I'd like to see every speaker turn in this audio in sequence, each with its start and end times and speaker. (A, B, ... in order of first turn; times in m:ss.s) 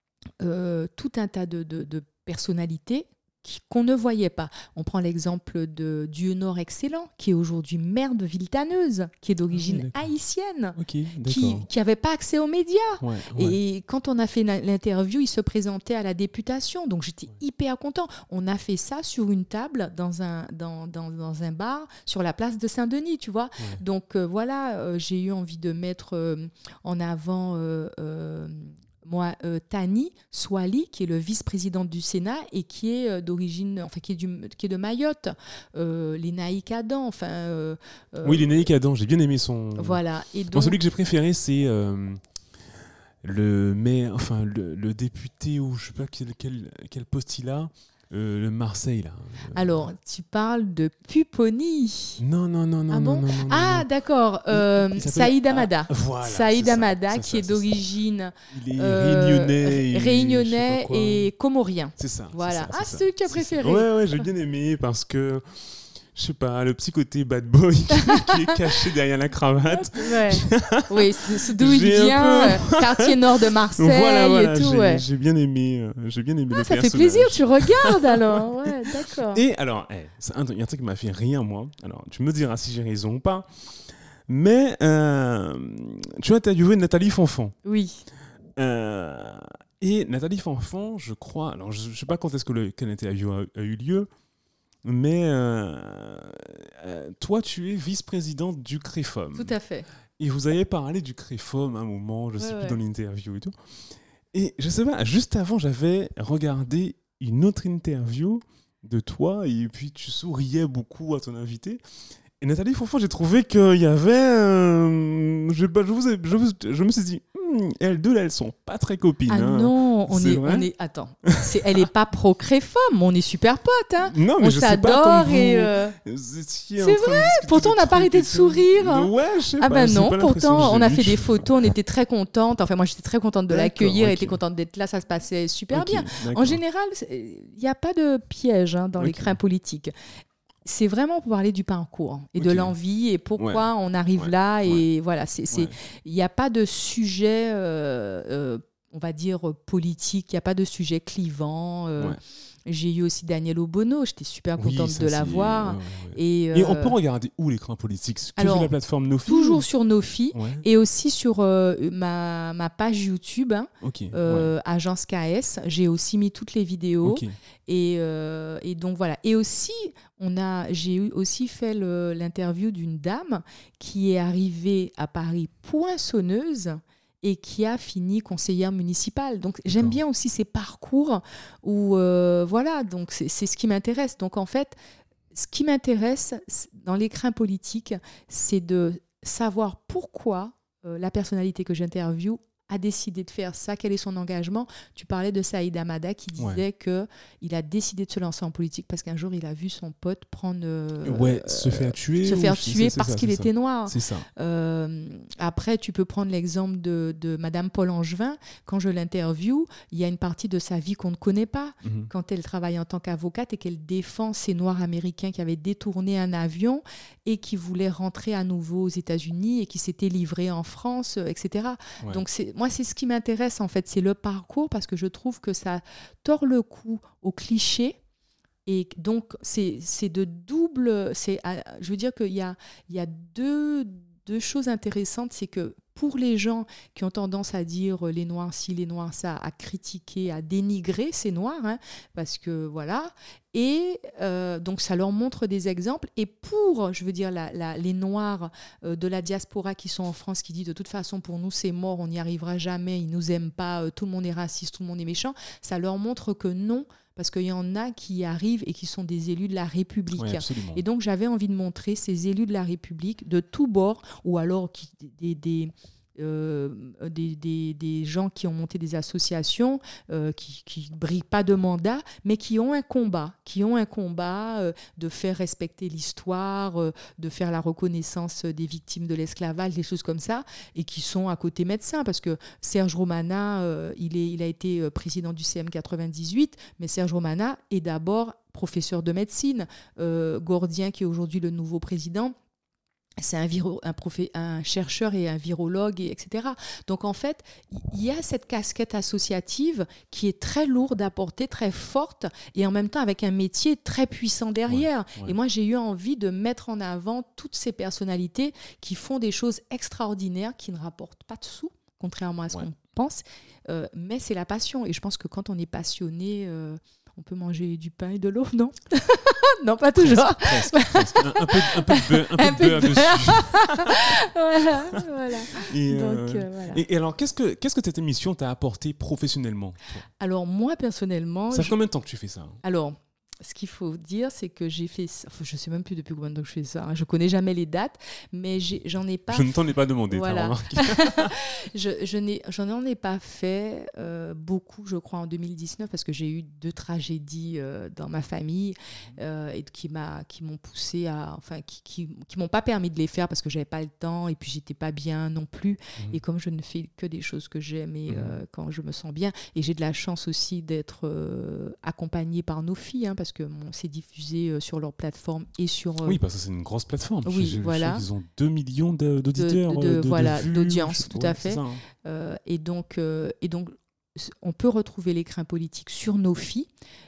0:00.4-0:38.7 A
0:09.5-0:10.1 B
0:10.8-0:11.7 B
0:13.0-0:13.6 B
0:38.2-0:42.2 B
0:39.8-0:40.8 A
0:43.2-0:49.9 B
0:49.5-0:52.2 A
0:52.2-0:53.9 B
0:52.9-1:04.3 A
0:54.5-0:57.8 B
0:58.5-1:01.3 B
1:02.0-1:27.6 B
1:08.0-1:08.6 A
1:09.7-1:15.0 A
1:16.5-1:19.4 A
1:27.6-1:28.1 A
1:28.6-1:34.1 B
1:34.8-1:39.6 B
1:39.4-1:39.9 A
1:40.2-1:51.8 B
1:42.4-1:42.8 A
1:52.4-2:00.7 B
1:59.3-2:06.0 A
2:01.2-2:01.6 B
2:04.1-2:11.5 B
2:06.8-2:19.9 A
2:13.5-2:14.4 B
2:15.7-2:16.6 B
2:19.0-2:19.4 B
2:20.6-2:37.0 A
2:22.4-2:22.8 B
2:23.4-2:23.7 B
2:24.2-2:24.8 B
2:34.6-2:39.6 B
2:38.4-2:38.7 A
2:39.2-3:04.8 A
2:40.3-2:40.6 B
2:43.8-2:44.5 B
2:47.0-2:47.3 B
2:59.7-3:00.0 B
3:05.3-3:48.0 A
3:16.4-3:16.6 B
3:21.0-3:24.3 B
3:31.8-3:32.1 B
3:48.7-4:52.4 A
4:20.2-4:20.8 B
4:53.2-5:26.8 A
5:04.7-5:05.3 B
5:20.0-5:24.2 B
5:24.9-5:30.1 B
5:30.2-5:31.8 A
5:31.5-5:32.6 B
5:32.6-5:39.6 A
5:39.3-5:41.4 B
5:40.1-6:06.2 A
5:58.1-5:58.4 B
6:06.0-6:11.8 B
6:07.2-6:08.0 A
6:09.4-6:16.7 A